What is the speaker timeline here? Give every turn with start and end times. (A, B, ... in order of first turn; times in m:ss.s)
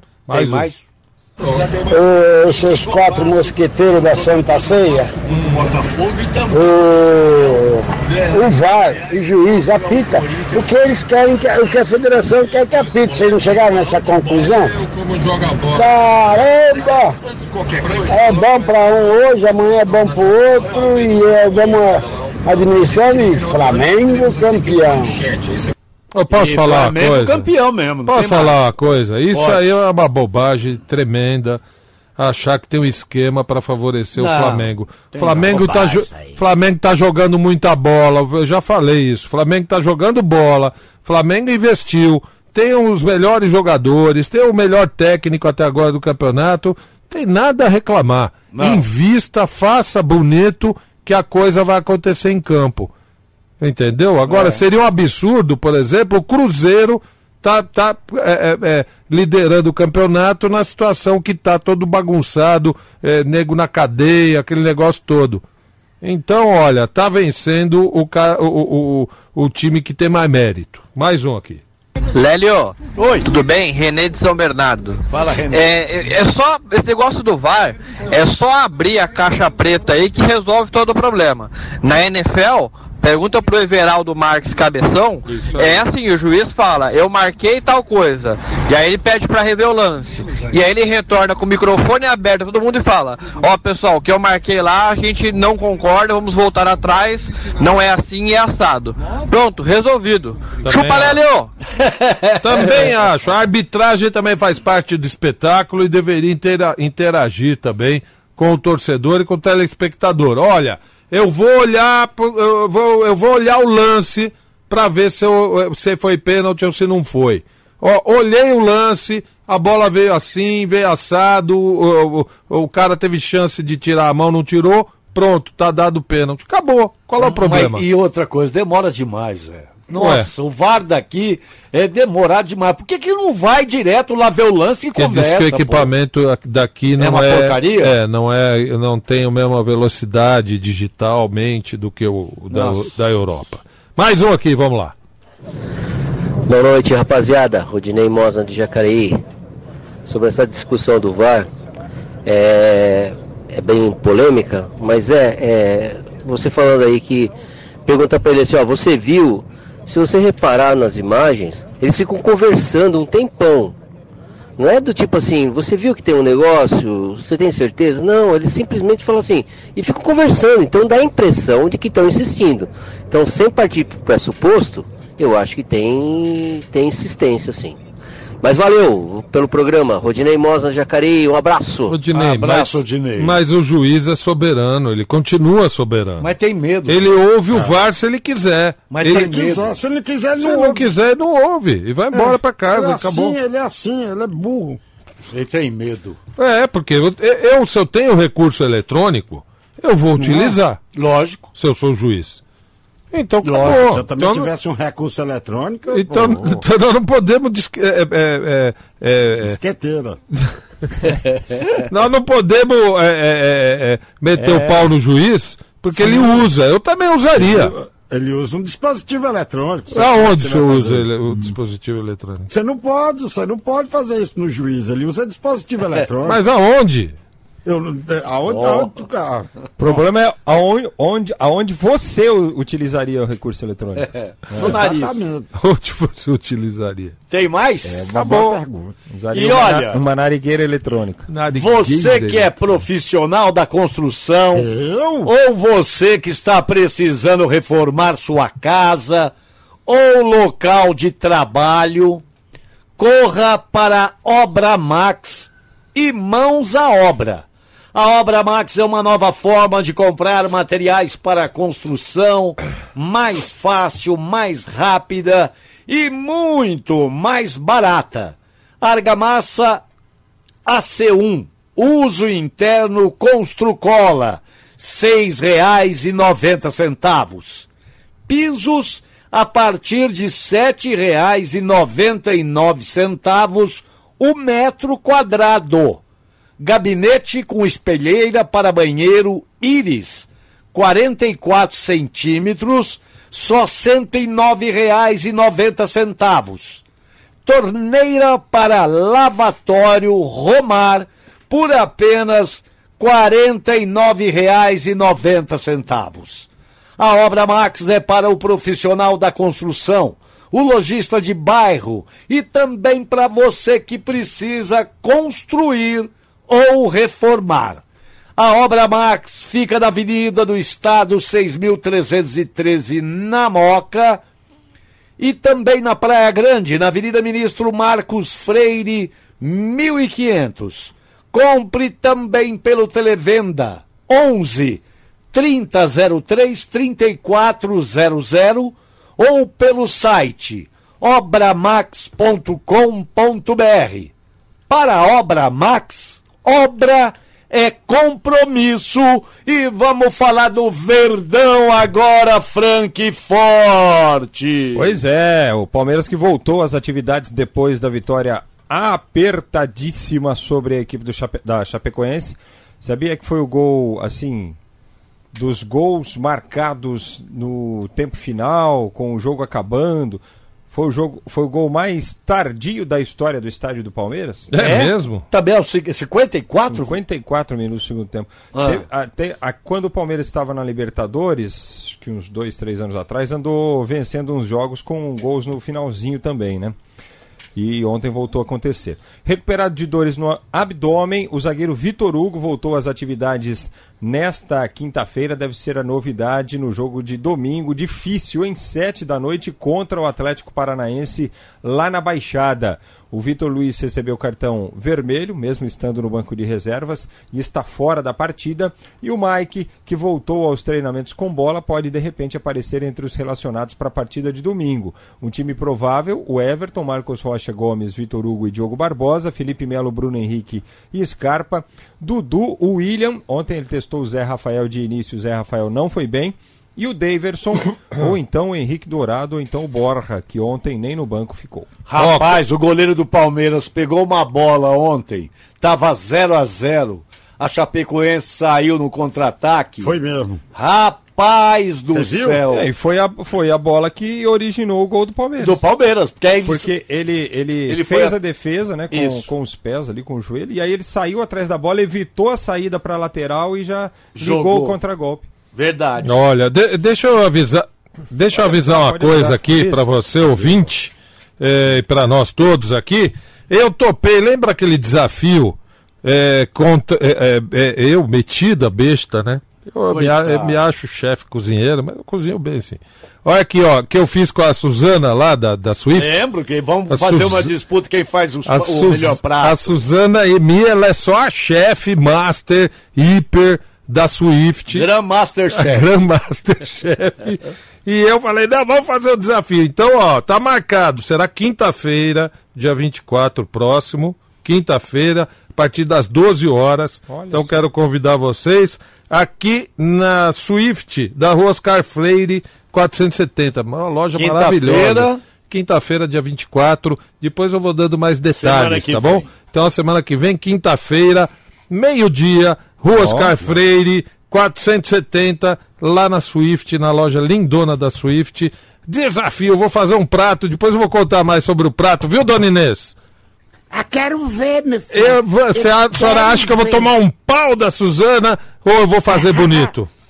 0:00.3-0:00.7 A
0:00.3-0:00.8 B
0:01.8-0:05.1 C
0:05.3-0:05.6 A
0:06.5-0:14.8 C
0:15.7-0:17.2 C
0:18.0-0:25.2 C
0:26.1-0:27.5 A
0:26.3-0:28.6 B
0:28.0-0:31.6 A
0:29.3-0:29.8 B
0:32.2-0:52.9 A
0:34.1-0:34.7 B
0:35.2-0:36.4 D
0:48.5-0:48.8 B
0:53.6-1:05.4 A
0:54.2-0:54.6 B
1:06.0-1:11.6 A
1:12.1-1:41.5 E
1:13.0-1:13.3 B
1:15.1-1:15.7 B
1:25.3-1:25.8 A
1:40.6-1:41.2 A
1:41.8-1:42.9 B
1:42.4-2:07.8 A
2:07.2-2:15.9 B
2:09.9-2:10.3 A
2:15.0-2:24.9 A
2:17.0-2:18.0 B
2:22.5-2:23.0 B
2:26.5-2:29.2 F
2:30.0-2:31.5 F
2:32.2-2:37.3 F
2:37.8-2:43.7 F
2:44.6-2:57.8 F
2:58.4-3:02.0 F
3:01.9-3:06.3 A
3:02.1-3:03.4 B
3:06.2-3:07.1 B
3:06.9-3:09.3 A
3:08.9-3:09.7 B
3:09.1-3:10.9 G
3:10.4-3:13.4 A
3:12.1-3:14.8 G
3:15.3-3:16.2 B
3:16.4-3:20.8 A
3:20.2-3:20.6 G
3:20.9-3:21.5 B
3:21.5-3:22.4 A
3:23.1-3:24.5 A
3:23.4-3:23.8 B
3:23.6-3:26.6 G
3:25.9-3:29.6 A
3:29.4-3:30.2 G
3:31.7-3:37.7 A
3:34.3-3:34.9 H
3:36.0-3:36.4 G
3:37.4-3:41.5 G
3:39.9-3:42.5 A
3:42.5-3:46.4 G
3:46.2-3:47.1 A
3:47.6-3:49.5 G
3:48.5-3:49.0 B
3:49.8-3:54.8 H
3:54.0-3:55.2 B
3:54.6-3:55.5 G
3:55.6-3:57.2 A
3:57.3-3:58.2 B
3:57.9-3:58.9 G
3:58.2-3:58.6 A
3:59.1-4:01.3 H
3:59.3-4:00.0 B
4:01.3-4:02.7 A
4:01.5-4:04.7 B
4:04.5-4:05.3 G
4:05.2-4:09.3 B
4:09.9-4:12.2 B
4:13.0-4:29.8 B
4:30.6-4:37.7 B
4:38.3-4:46.0 B
4:46.6-4:56.8 B
4:57.4-5:17.8 B
5:18.4-5:24.2 B
5:25.2-5:34.8 B
5:35.3-5:44.1 B
5:44.7-5:55.0 B
5:54.7-6:04.6 H
6:05.3-6:14.5 H
6:14.5-6:15.2 A
6:14.5-6:17.0 B
6:16.7-6:26.8 H
6:18.5-6:18.8 B
6:27.6-7:11.7 H
7:11.9-7:19.9 B
7:12.0-7:12.4 A
7:19.8-7:20.4 G
7:20.5-7:22.7 B
7:21.9-7:22.4 G
7:22.5-7:25.6 H
7:25.4-7:26.7 B
7:26.4-7:35.3 H
7:27.7-7:28.2 B
7:28.9-7:29.3 B
7:34.2-7:34.8 B
7:35.5-7:36.1 B
7:36.0-7:56.2 A
7:38.3-7:40.5 H
7:49.9-7:50.6 B
7:55.9-7:59.7 B
7:56.9-7:57.5 A
7:58.4-8:04.9 A
8:04.7-8:05.9 B
8:05.5-8:42.9 A
8:17.1-8:17.6 H
8:24.1-8:25.2 B
8:28.3-8:29.3 B
8:32.9-8:33.5 H
8:43.7-8:46.9 D
8:44.9-8:49.9 A